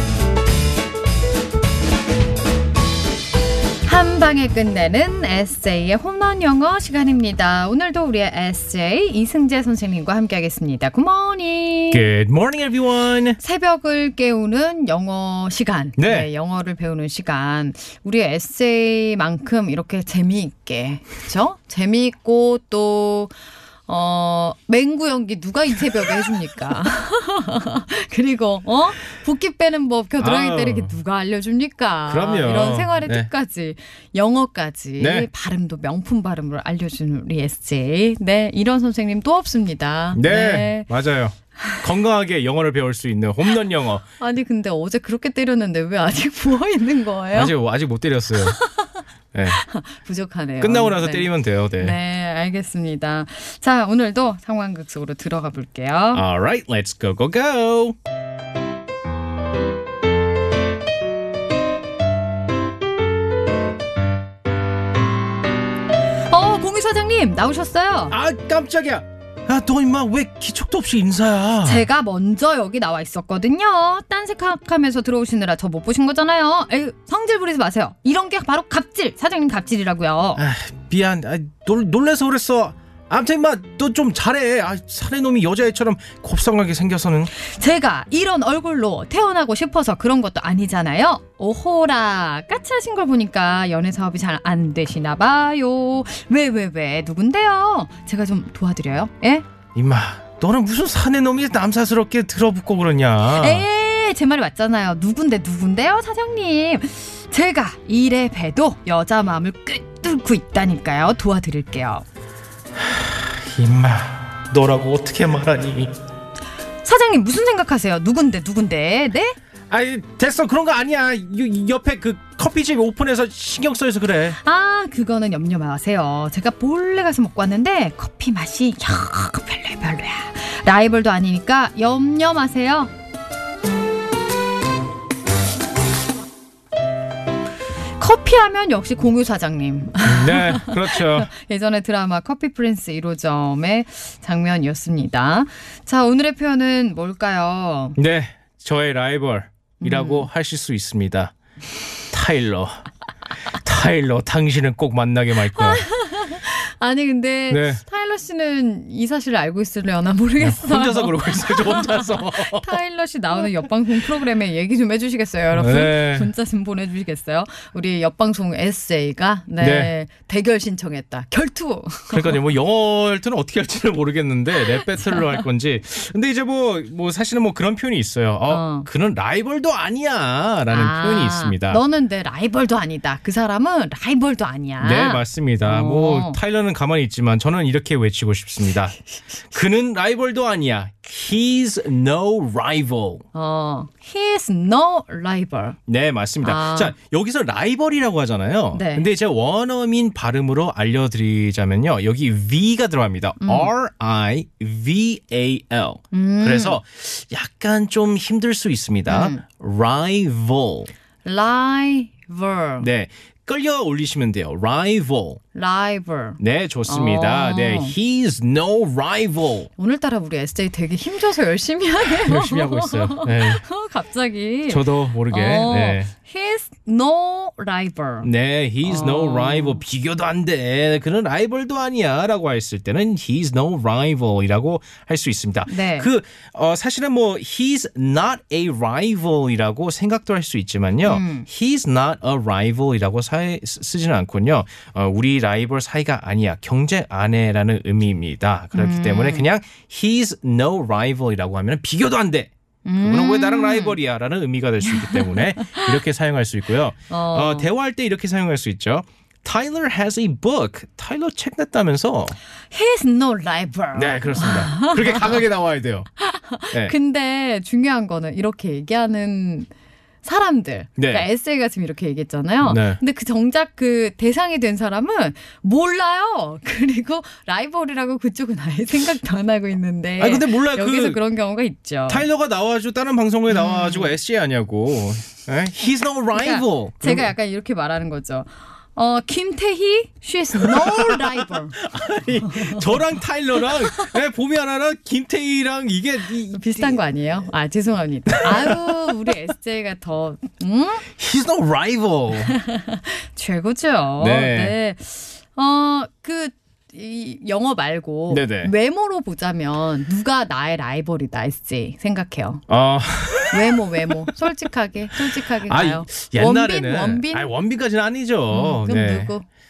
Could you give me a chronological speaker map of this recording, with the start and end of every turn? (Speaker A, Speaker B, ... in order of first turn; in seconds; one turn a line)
Speaker A: 3.8-12.1
Speaker B: 11.9-13.4
Speaker A: 13.4-23.3
Speaker B: 16.0-16.3
Speaker A: 23.9-40.9
Speaker B: 30.2-30.9
Speaker B: 32.1-33.3
Speaker B: 35.0-35.3
Speaker B: 40.1-44.0
Speaker A: 44.2-47.5
Speaker B: 47.3-48.6
Speaker A: 48.4-49.0
Speaker B: 49.3-49.6
Speaker A: 49.5-56.2
Speaker B: 50.6-52.0
Speaker B: 56.1-58.0
Speaker A: 66.3-68.1
Speaker B: 68.1-71.8
Speaker A: 71.6-80.4
Speaker B: 80.3-87.3
Speaker A: 87.3-99.5
Speaker B: 99.7-103.6
Speaker A: 103.3-112.0
Speaker B: 112.8-115.9
Speaker A: 116.8-119.3
Speaker B: 119.7-124.4
Speaker A: 124.4-132.9
Speaker A: 138.0-148.0
Speaker B: 140.0-141.3
Speaker B: 148.0-151.3
Speaker A: 149.8-150.3
Speaker B: 152.1-152.8
Speaker B: 153.6-155.8
Speaker A: 155.5-172.4
Speaker B: 157.5-157.8
Speaker B: 160.4-162.7
Speaker B: 165.5-166.3
Speaker B: 169.6-169.9
Speaker B: 172.1-181.8
Speaker A: 178.5-178.9
Speaker A: 180.7-186.4
Speaker B: 184.8-188.9
Speaker B: 189.5-193.2
Speaker A: 193.3-195.8
Speaker B: 195.9-210.9
Speaker A: 196.4-196.9
Speaker A: 198.7-199.1
Speaker A: 203.4-203.7
Speaker A: 206.1-206.8
Speaker A: 209.1-209.4
Speaker A: 211.2-212.9
Speaker B: 212.8-215.4
Speaker A: 215.5-217.9
Speaker B: 216.4-219.7
Speaker A: 219.8-228.3
Speaker B: 222.0-223.6
Speaker B: 224.7-226.1
Speaker B: 228.2-262.4
Speaker A: 228.8-229.8
Speaker A: 235.7-236.1
Speaker A: 241.1-241.5
Speaker A: 248.7-249.4
Speaker A: 252.8-254.0
Speaker A: 254.8-255.9
Speaker A: 257.1-257.7
Speaker A: 262.7-265.4
Speaker B: 263.9-266.1
Speaker A: 266.2-269.7
Speaker A: 270.2-282.2
Speaker B: 271.0-271.2
Speaker B: 272.6-273.0
Speaker B: 280.2-281.2
Speaker B: 282.1-287.3
Speaker A: 283.5-284.1
Speaker A: 286.3-291.8
Speaker B: 290.6-297.0
Speaker A: 292.4-292.8
Speaker A: 296.5-301.1
Speaker B: 298.3-298.8
Speaker B: 301.2-302.5
Speaker A: 302.4-312.6
Speaker B: 304.2-304.7
Speaker B: 308.3-308.7
Speaker B: 312.7-313.9
Speaker A: 313.5-317.5
Speaker B: 315.6-319.3
Speaker A: 318.5-319.4